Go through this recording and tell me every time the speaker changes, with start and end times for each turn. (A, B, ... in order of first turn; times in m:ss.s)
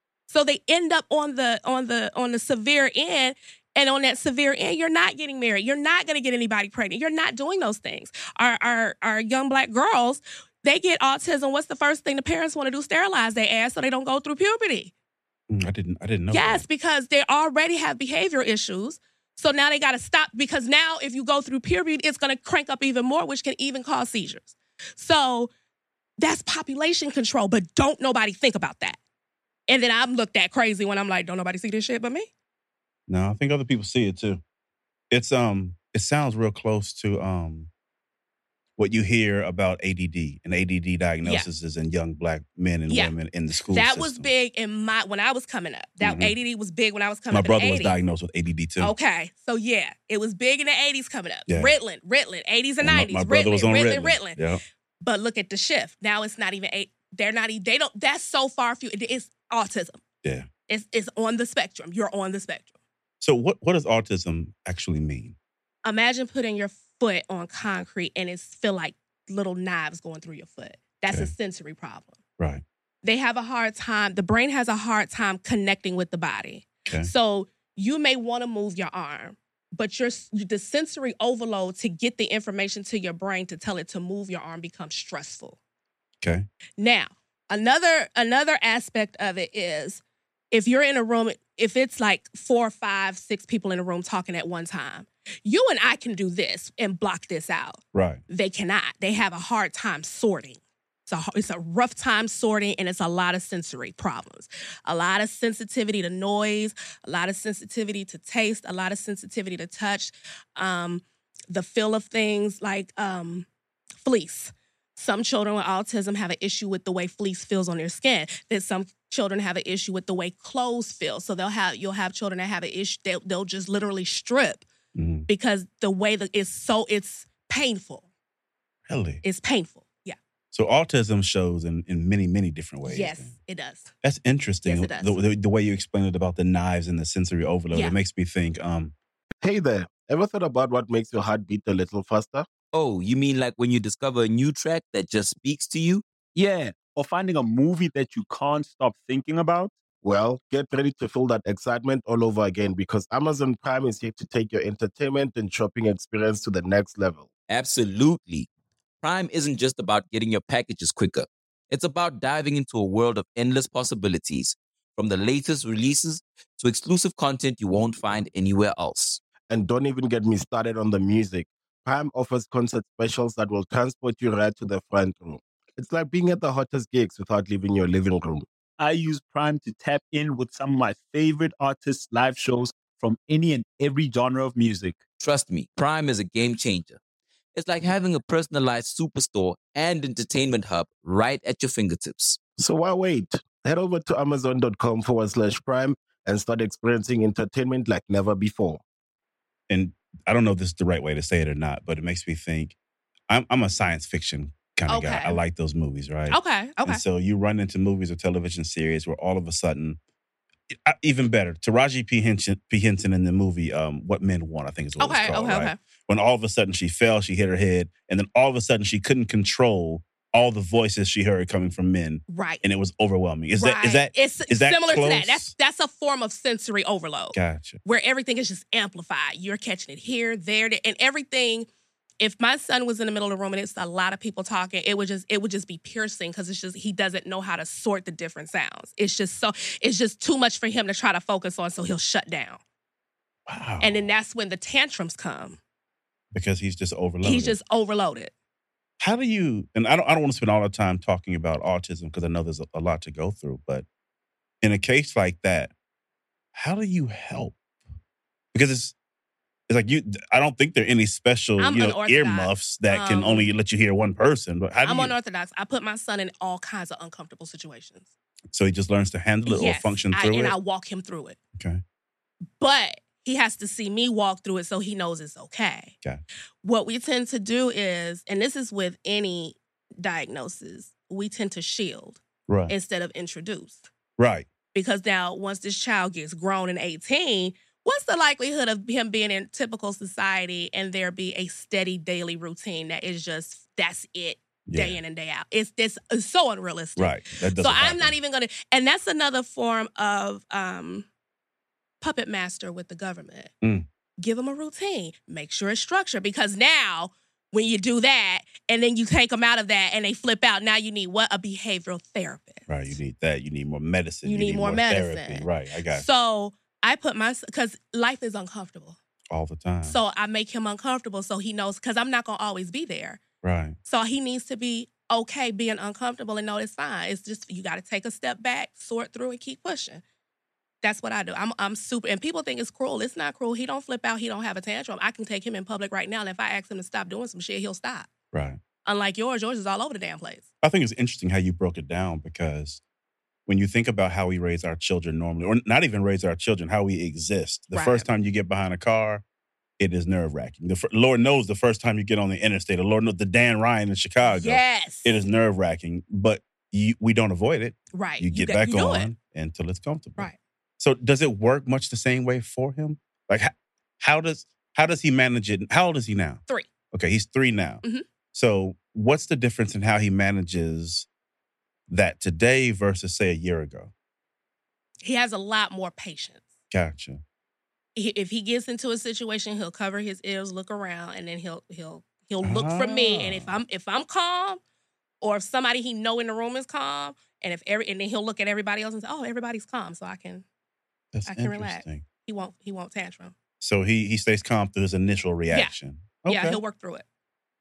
0:00.3-0:14.9 A
0:15.5-0:16.6 B
0:16.3-0:25.5 A
0:26.2-0:29.0 A
0:29.7-0:32.3 A
0:33.1-0:34.4 B
0:35.1-0:37.7 B
0:38.8-0:44.3 B
0:42.9-0:43.1 A
0:43.7-0:48.0 A
0:46.0-0:46.3 B
0:47.3-0:48.9 B
0:48.8-0:54.4 A
0:51.5-0:51.7 B
0:52.8-0:54.6 B
0:55.0-1:00.0 A
1:00.2-1:00.5 B
1:00.7-1:02.7 A
1:03.2-1:05.4 B
1:05.8-1:12.2 A
1:12.4-1:12.6 B
1:13.0-1:25.6 A
1:26.2-1:26.5 B
1:26.8-1:53.5 A
1:37.9-1:38.2 B
1:54.0-2:04.6 A
2:04.9-2:05.3 B
2:05.3-2:08.0 A
2:08.9-2:09.2 B
2:09.2-2:10.2 A
2:10.5-2:13.3 B
2:12.8-2:13.9 A
2:14.0-2:18.9 B
2:14.6-2:15.2 A
2:19.4-2:22.5 C
2:22.7-2:26.0 D
2:26.3-2:29.8 E
2:30.0-2:37.3 C
2:37.5-2:38.5 D
2:39.0-2:49.2 D
2:49.5-2:58.4 C
2:58.8-3:05.0 E
3:05.2-3:07.0 D
3:07.5-3:12.4 D
3:12.6-3:18.8 C
3:19.7-3:22.7 B
3:23.3-3:30.0 B
3:24.9-3:25.4 A
3:26.3-3:27.0 A
3:30.7-3:45.5 B
3:35.0-3:35.8 A
3:42.3-3:42.6 A
3:43.6-3:51.7 A
3:47.3-3:47.8 B
3:52.2-4:02.6 A
4:03.4-4:04.1 B
4:03.8-4:05.6 A
4:06.3-4:07.6 B
4:07.2-4:08.3 A
4:09.0-4:13.8 B
4:14.6-4:15.7 B
4:16.5-4:17.6 B
4:18.5-4:18.9 B
4:19.7-4:25.1 B
4:21.6-4:23.5 A
4:24.8-4:28.1 A
4:28.5-4:30.6 B
4:29.4-4:31.4 A
4:31.5-4:31.8 B
4:32.6-4:35.9 A
4:36.6-4:43.8 A
4:42.5-4:42.7 B
4:44.2-4:44.5 B
4:44.7-5:01.1 A
4:54.7-4:55.0 B
4:57.0-4:58.1 B
5:02.0-5:03.5 A
5:04.2-5:13.0 A
5:12.7-5:16.0 B
5:14.2-5:19.0 A
5:19.3-5:20.0 B
5:19.8-5:23.2 A
5:23.4-5:23.8 B
5:23.8-5:30.0 A
5:30.8-5:38.1 A
5:38.3-5:38.6 B
5:38.8-5:40.4 A
5:40.6-5:42.8 B
5:43.5-5:49.2 B
5:47.7-5:48.0 A
5:49.8-6:06.4 B
5:54.3-5:55.2 A
5:57.9-5:59.1 A
6:06.9-6:11.1 B
6:11.9-6:13.9 B
6:15.0-6:16.4 A
6:16.7-6:17.2 B
6:18.0-6:24.6 A
6:22.4-6:23.6 B
6:25.2-6:30.4 A
6:31.1-6:32.0 B
6:31.3-6:33.3 A
6:33.6-6:36.6 B
6:36.3-6:37.0 A